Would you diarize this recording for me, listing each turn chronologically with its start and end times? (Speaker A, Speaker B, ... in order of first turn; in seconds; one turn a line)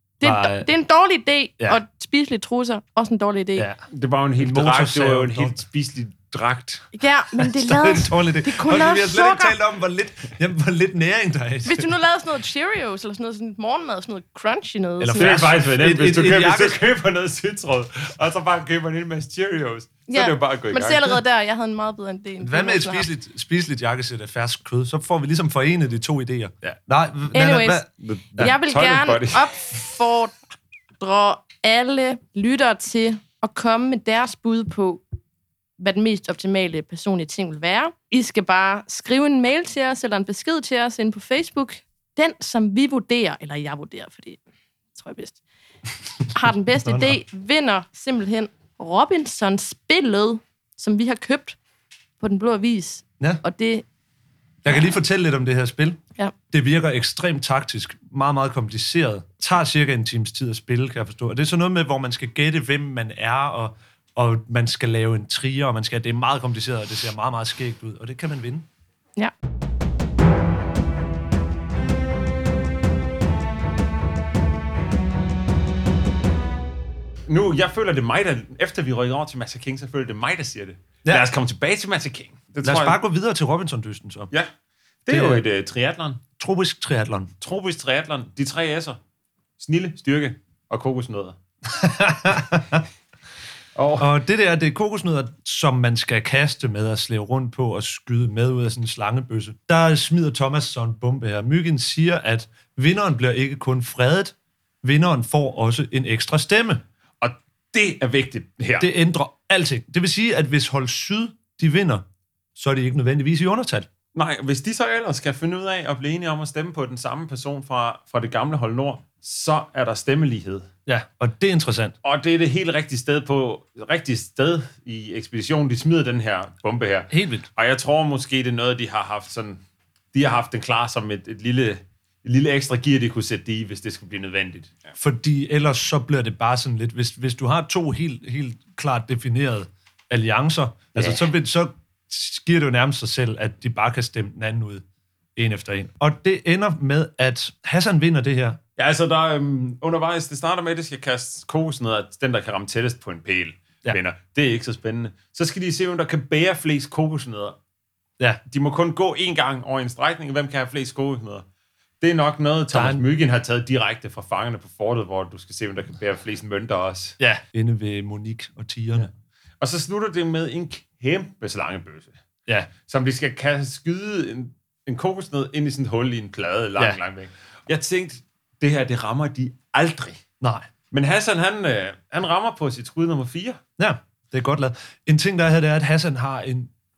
Speaker A: 0.2-3.7
Speaker B: 0.2-0.7
Speaker B: 3.6-3.8
Speaker C: 3.9-6.9
Speaker B: 4.4-5.6
Speaker A: 6.9-9.6
Speaker B: 7.4-11.9
Speaker A: 11.7-15.5
Speaker B: 15.0-16.8
Speaker C: 15.2-21.2
Speaker A: 20.1-23.1
Speaker B: 22.4-27.9
Speaker A: 27.3-30.4
Speaker C: 28.0-29.5
Speaker A: 31.0-35.0
Speaker A: 35.8-44.4
Speaker A: 45.0-45.4
Speaker A: 46.3-51.6
Speaker B: 46.8-47.2
Speaker A: 52.2-53.9
Speaker B: 54.6-56.0
Speaker B: 56.5-68.7
Speaker C: 77.3-83.0
Speaker B: 82.6-84.3
Speaker C: 85.1-86.2
Speaker B: 85.1-85.4
Speaker B: 86.4-87.3
Speaker C: 87.4-89.0
Speaker C: 89.6-91.4
Speaker B: 91.7-92.8
Speaker C: 93.8-94.1
Speaker B: 94.0-106.8
Speaker C: 107.2-108.9
Speaker B: 108.8-112.0
Speaker B: 112.6-113.9
Speaker C: 114.1-120.7
Speaker B: 120.9-122.0
Speaker C: 122.0-129.6
Speaker B: 127.1-127.5
Speaker C: 130.1-134.8
Speaker B: 135.0-144.8
Speaker C: 140.9-141.3
Speaker B: 145.4-148.6
Speaker C: 148.8-157.6
Speaker C: 158.5-161.4
Speaker C: 162.0-167.2
Speaker B: 162.7-163.0
Speaker B: 167.2-169.1
Speaker C: 169.6-172.2
Speaker C: 172.8-180.2
Speaker B: 180.4-180.7
Speaker C: 180.9-183.6
Speaker B: 183.8-186.7